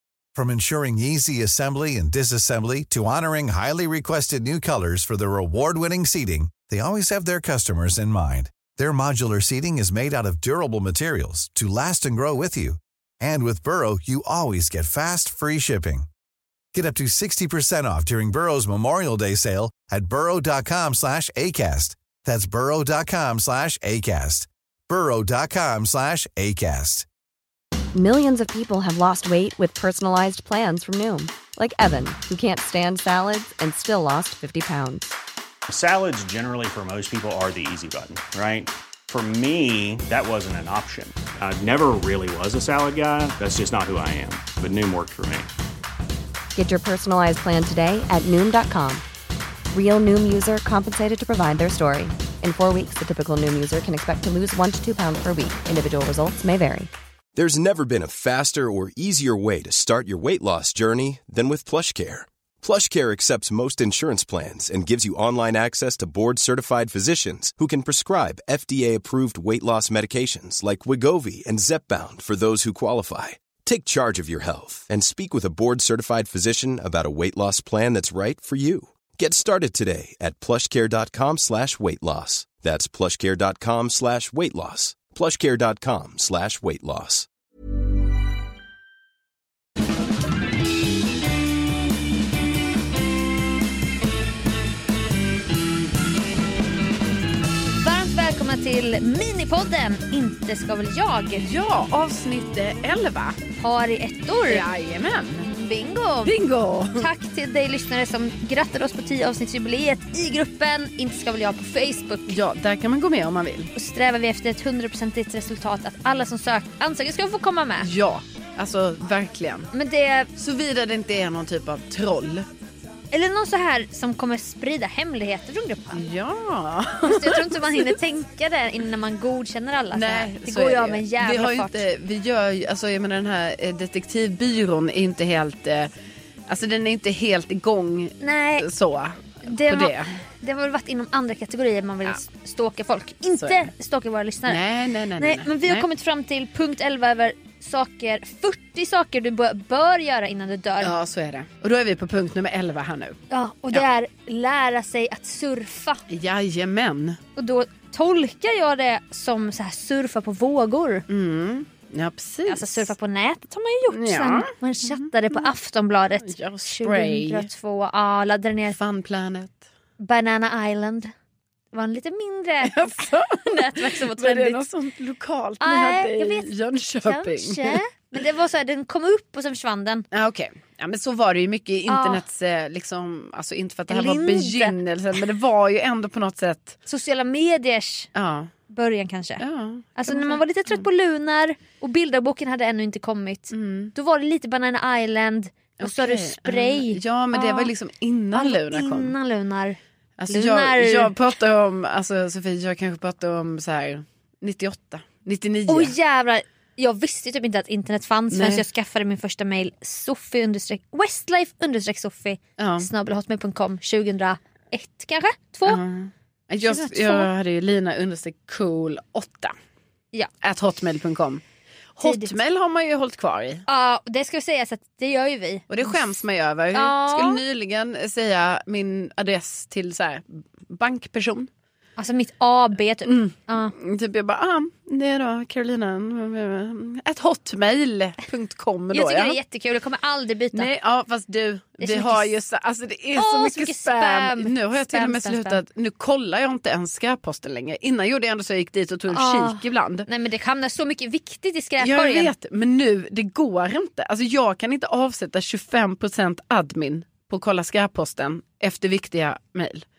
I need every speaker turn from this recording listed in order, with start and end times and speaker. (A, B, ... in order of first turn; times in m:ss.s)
0:00.4-0:16.1 A
0:16.7-0:27.1 A
0:27.9-0:35.2 B
0:35.7-0:45.5 C
0:46.6-0:49.0 B
0:49.7-0:56.9 B
0:57.3-1:27.3 D
1:37.7-1:41.5 E
1:41.4-1:43.4 F
1:43.6-1:44.6 E
1:44.5-1:45.5 F
1:45.4-1:46.4 E
1:46.2-1:47.1 F
1:47.0-1:52.4 E
1:52.3-1:53.7 F
1:53.8-1:57.9 E
1:57.8-1:59.7 F
1:59.7-2:00.3 E
2:00.4-2:02.5 F
2:03.1-2:05.9 E
2:05.9-2:07.9 F
2:07.0-2:11.8 E
2:09.9-2:15.9 F
2:16.5-2:20.2 F
2:18.2-2:18.7 E
2:19.4-2:24.7 E
2:23.3-2:23.7 F
2:24.5-2:25.9 F
2:25.2-2:30.9 E
2:30.8-2:33.2 F
2:33.3-2:36.0 E
2:36.1-2:37.2 F
2:37.4-2:41.1 E
2:41.1-2:42.9 F
2:42.5-2:48.8 E
2:43.9-2:45.0 F
2:46.2-2:47.5 F
2:48.7-2:49.6 F
2:50.0-2:51.1 E
2:51.7-2:54.6 E
2:52.6-2:57.8 F
2:55.6-3:00.1 E
3:00.1-3:06.8 F
3:01.9-3:02.2 E
3:03.9-3:04.8 E
3:06.9-3:08.1 E
3:08.2-3:08.5 F
3:08.7-3:09.4 E
3:09.4-3:10.9 F
3:10.0-3:17.7 E
3:13.5-3:13.9 F
3:15.8-3:19.2 F
3:18.3-3:19.8 E
3:20.2-3:25.9 F
3:20.3-3:21.2 E
3:25.7-3:35.8 E
3:28.3-3:28.6 F
3:32.6-3:32.9 F
3:35.7-3:39.5 F
3:36.6-3:37.3 E
3:40.4-3:41.4 F
3:42.0-3:43.6 F
3:42.0-3:42.4 E
3:43.7-3:46.1 E
3:45.7-3:51.5 F
3:46.7-3:47.4 E
3:52.0-3:53.7 E
3:53.0-3:59.4 F
3:58.9-4:00.7 E
4:00.5-4:10.1 F
4:01.8-4:02.3 E
4:03.2-4:05.6 E
4:09.1-4:12.3 E
4:11.8-4:19.8 F